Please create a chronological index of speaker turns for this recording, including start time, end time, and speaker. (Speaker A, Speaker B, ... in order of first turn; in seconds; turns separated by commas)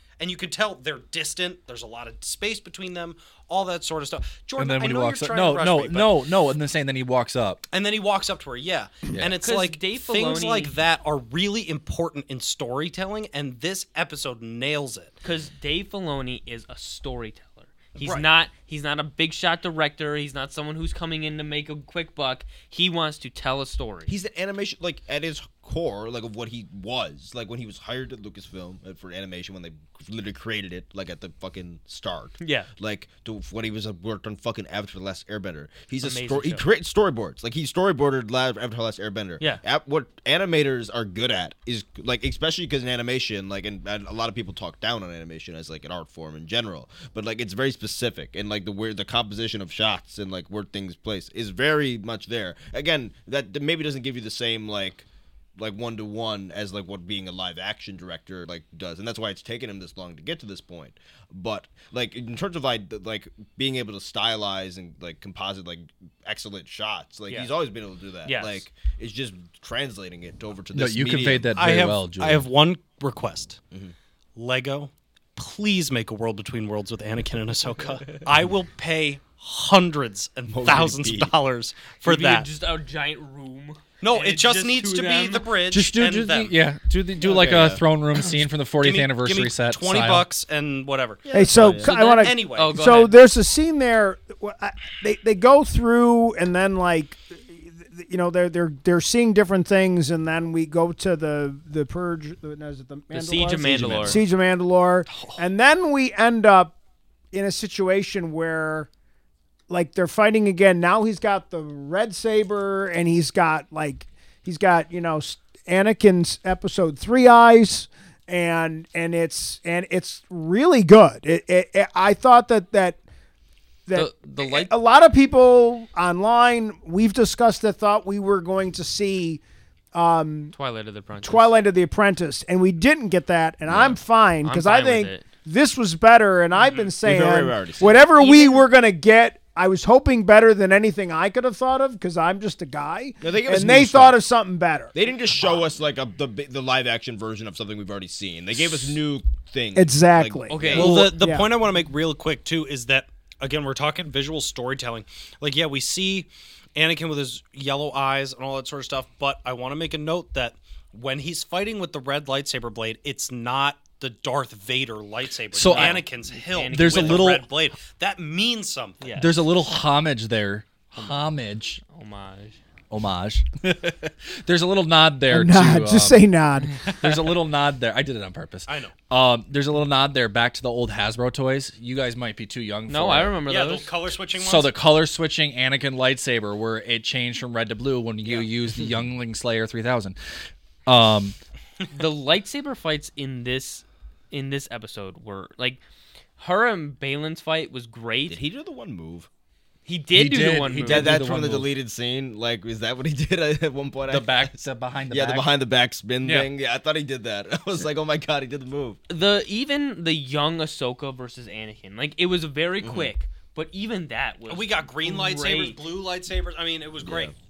Speaker A: 0.2-6.2, Speaker B: 4.6-7.6, Speaker A: 7.7-15.2, Speaker C: 9.3-10.8, Speaker C: 15.2-24.1, Speaker A: 18.0-18.3, Speaker D: 24.1-71.5, Speaker C: 32.4-32.7, Speaker C: 36.0-36.6, Speaker C: 68.2-68.7, Speaker B: 70.7-72.5, Speaker A: 71.5-73.6, Speaker A: 74.4-82.5, Speaker D: 80.5-81.3, Speaker C: 82.0-85.5, Speaker A: 84.0-86.5, Speaker B: 85.7-90.3, Speaker D: 87.2-87.8, Speaker A: 88.8-91.3, Speaker D: 91.3-92.0, Speaker E: 91.3-106.8, Speaker C: 91.8-93.2, Speaker A: 91.9-92.8, Speaker C: 103.1-104.2, Speaker B: 103.6-104.2, Speaker A: 105.1-105.4, Speaker E: 107.3-108.9, Speaker E: 109.7-123.0, Speaker E: 123.9-129.4, Speaker C: 123.9-124.7, Speaker E: 129.9-130.5, Speaker C: 130.5-131.5, Speaker E: 131.2-145.0, Speaker D: 133.7-134.0, Speaker C: 134.4-135.2, Speaker A: 136.6-136.9, Speaker D: 137.0-138.0, Speaker C: 138.0-138.7, Speaker D: 143.2-144.2, Speaker D: 144.9-151.0, Speaker E: 149.8-151.5, Speaker C: 150.5-151.1, Speaker A: 150.8-169.2, Speaker B: 165.5-166.1, Speaker C: 165.7-167.3, Speaker B: 166.7-167.5, Speaker C: 169.0-169.3, Speaker B: 169.2-171.8, Speaker C: 171.0-171.3, Speaker C: 171.8-172.6, Speaker B: 172.9-176.2, Speaker E: 175.3-176.9, Speaker B: 176.8-183.4, Speaker A: 178.7-178.9, Speaker C: 182.9-183.9, Speaker A: 183.5-184.8, Speaker B: 184.4-191.4, Speaker C: 191.9-195.8, Speaker C: 196.4-198.4, Speaker D: 198.3-199.3, Speaker C: 199.9-201.2, Speaker B: 200.1-201.7, Speaker D: 200.8-204.5, Speaker B: 204.1-205.5, Speaker D: 205.1-209.0, Speaker B: 206.2-206.5, Speaker C: 209.1-215.8, Speaker D: 212.8-213.1, Speaker A: 214.5-217.3, Speaker D: 217.0-217.3